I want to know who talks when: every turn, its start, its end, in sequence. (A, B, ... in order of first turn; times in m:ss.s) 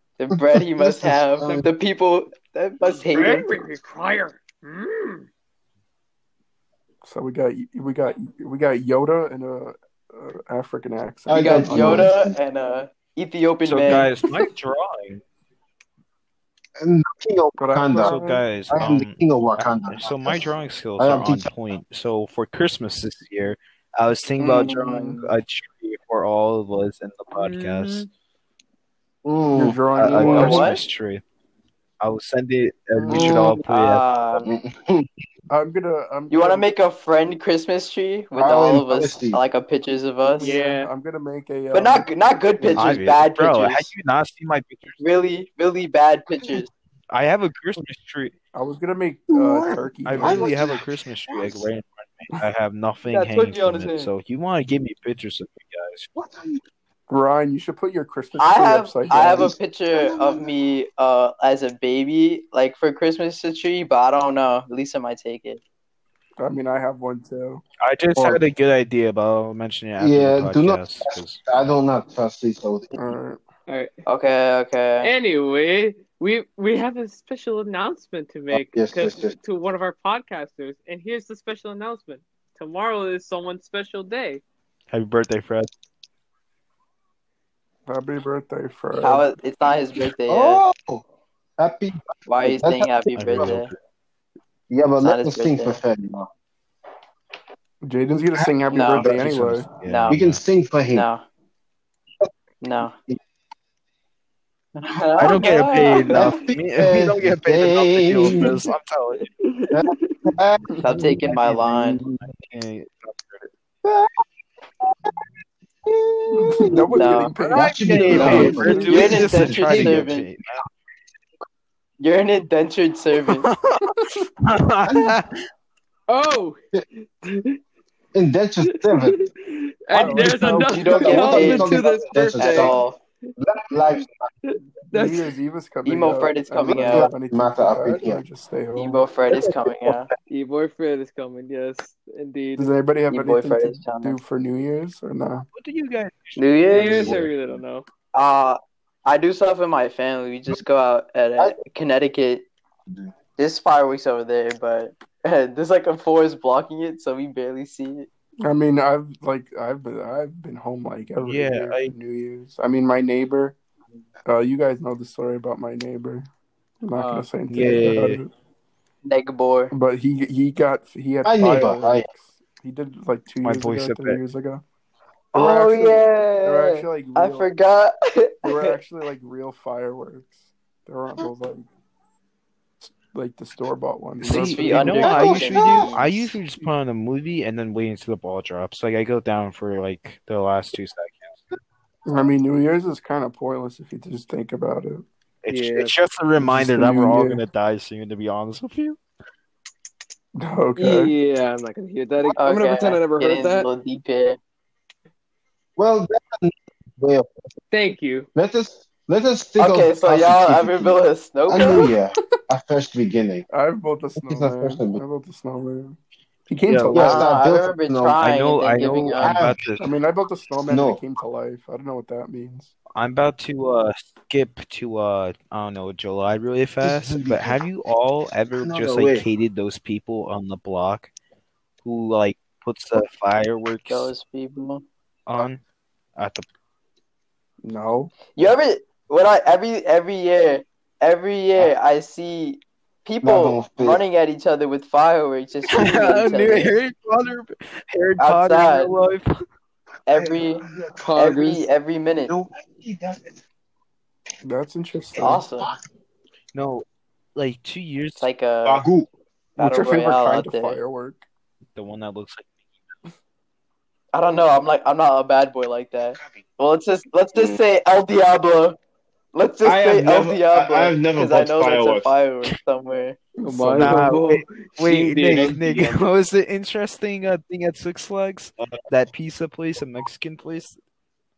0:00.2-0:03.5 A
0:00.3-0:01.7 B
0:03.1-0:05.2 C
0:07.0-0:12.1 D
0:11.3-0:12.4 B
0:11.3-0:14.1 A
0:13.6-0:15.2 E
0:16.8-0:18.2 B
0:17.6-0:18.4 D
0:18.0-0:28.0 E
0:18.7-0:21.5 B
0:24.4-0:25.3 A
0:27.3-0:28.1 C
0:29.2-0:30.7 B
0:29.5-0:30.7 D
0:30.0-0:31.2 E
0:30.2-0:30.8 A
0:32.0-0:34.0 E
0:33.0-0:33.4 D
0:33.1-0:33.6 B
0:33.6-0:34.5 A
0:34.4-0:35.1 B
0:35.5-0:36.6 D
0:36.3-0:40.6 A
0:38.3-0:39.4 B
0:40.2-0:42.1 D
0:40.4-0:40.9 C
0:41.7-0:43.9 A
0:42.7-0:45.0 E
0:45.0-0:46.7 A
0:47.1-0:48.3 E
0:48.5-0:50.5 D
0:49.3-0:51.7 B
0:50.0-0:56.1 E
0:53.1-0:54.0 A
0:53.1-0:53.9 C
0:56.1-0:56.6 B
0:57.1-0:59.5 D
0:58.4-1:05.6 A
0:59.1-1:00.5 B
1:06.4-1:07.6 D
1:07.8-1:11.4 E
1:08.2-1:08.4 B
1:10.0-1:13.2 B
1:12.9-1:13.4 D
1:13.7-1:13.9 C
1:14.0-1:15.1 A
1:15.0-1:24.4 C
1:18.5-1:19.4 B
1:24.9-1:25.7 E
1:27.9-1:29.2 D
1:29.0-1:30.6 A
1:30.3-1:31.0 B
1:31.6-1:33.6 B
1:32.2-1:33.7 A
1:33.2-1:33.7 E
1:34.7-1:36.3 B
1:35.0-1:35.8 A
1:37.8-1:39.6 D
1:38.3-1:39.3 B
1:38.7-1:39.2 A
1:39.1-1:40.4 E
1:39.8-1:40.2 A
1:40.1-1:41.1 B
1:40.9-1:41.2 A
1:42.6-1:42.9 A
1:44.8-1:46.2 A
1:45.2-1:49.3 E
1:46.1-1:48.5 B
1:48.2-1:48.6 C
1:49.4-1:50.3 C
1:49.7-1:51.1 B
1:50.8-1:52.0 A
1:51.2-1:53.5 E
1:53.8-1:54.2 B
1:55.8-2:00.1 B
1:56.3-1:59.2 D
1:56.9-1:57.3 A
1:57.5-2:00.6 E
1:58.0-1:59.1 C
1:58.1-2:00.3 A
2:02.0-2:03.5 A
2:03.3-2:05.4 E
2:04.8-2:05.2 B
2:06.1-2:06.6 C
2:07.2-2:07.6 C
2:08.1-2:09.2 B
2:08.7-2:13.3 C
2:09.9-2:11.4 D
2:10.0-2:12.8 B
2:10.6-2:13.0 A
2:13.4-2:14.2 B
2:14.4-2:15.3 C
2:14.9-2:19.1 D
2:15.8-2:17.1 A
2:16.6-2:18.2 B
2:18.7-2:20.1 A
2:20.3-2:22.7 C
2:22.6-2:25.4 D
2:23.1-2:24.2 A
2:25.5-2:27.3 E
2:26.4-2:27.2 A
2:26.7-2:27.8 C
2:28.1-2:32.4 A
2:33.4-2:38.1 A
2:38.4-2:43.6 D
2:41.2-2:41.9 E
2:44.2-2:46.3 D
2:46.8-2:48.3 D
2:47.0-2:47.3 C
2:47.5-2:48.2 E
2:49.0-2:49.7 A
2:49.7-2:54.6 D
2:51.2-2:52.1 B
2:53.4-2:54.2 E
2:55.3-2:58.7 A
2:55.3-2:57.5 D
2:58.4-3:01.6 D
3:02.8-3:05.1 D
3:04.2-3:11.4 E
3:04.3-3:06.0 A
3:05.0-3:06.3 B
3:12.0-3:15.0 D
3:15.4-3:19.0 E
3:15.5-3:15.9 C
3:16.4-3:17.4 D
3:20.4-3:21.1 D
3:20.8-3:23.7 C
3:22.4-3:24.4 A
3:25.8-3:27.4 B
3:27.7-3:28.3 C
3:28.3-3:33.5 B
3:29.6-3:31.9 A
3:33.5-3:37.3 D
3:34.2-3:35.0 B
3:36.7-3:37.1 E
3:36.9-3:38.2 B
3:37.0-3:39.5 A
3:38.2-3:39.9 E
3:39.2-3:39.8 B
3:39.8-3:42.7 D
3:40.7-3:41.0 B
3:42.9-3:51.1 E
3:46.8-3:47.6 B
3:48.5-3:49.2 B
3:51.8-3:54.1 E
3:53.9-3:54.8 A
3:55.3-3:55.6 E
3:56.2-3:56.4 E
3:57.6-3:58.1 D
3:58.3-4:06.7 A
4:03.2-4:04.0 B
4:05.7-4:09.4 E
4:08.2-4:09.0 A
4:10.1-4:10.6 A
4:10.1-4:11.1 B
4:11.0-4:11.6 C
4:11.2-4:12.3 A
4:12.3-4:13.4 B
4:14.4-4:15.4 D
4:15.2-4:15.7 A
4:15.2-4:15.8 B
4:16.5-4:16.8 E
4:17.3-4:18.2 E
4:18.2-4:18.8 A
4:18.6-4:19.1 B
4:19.6-4:20.8 A
4:19.6-4:21.2 D
4:21.8-4:22.5 E
4:24.1-4:28.8 A
4:29.3-4:33.2 A
4:29.6-4:32.1 B
4:33.4-4:34.1 D
4:33.4-4:36.0 C
4:33.7-4:40.8 E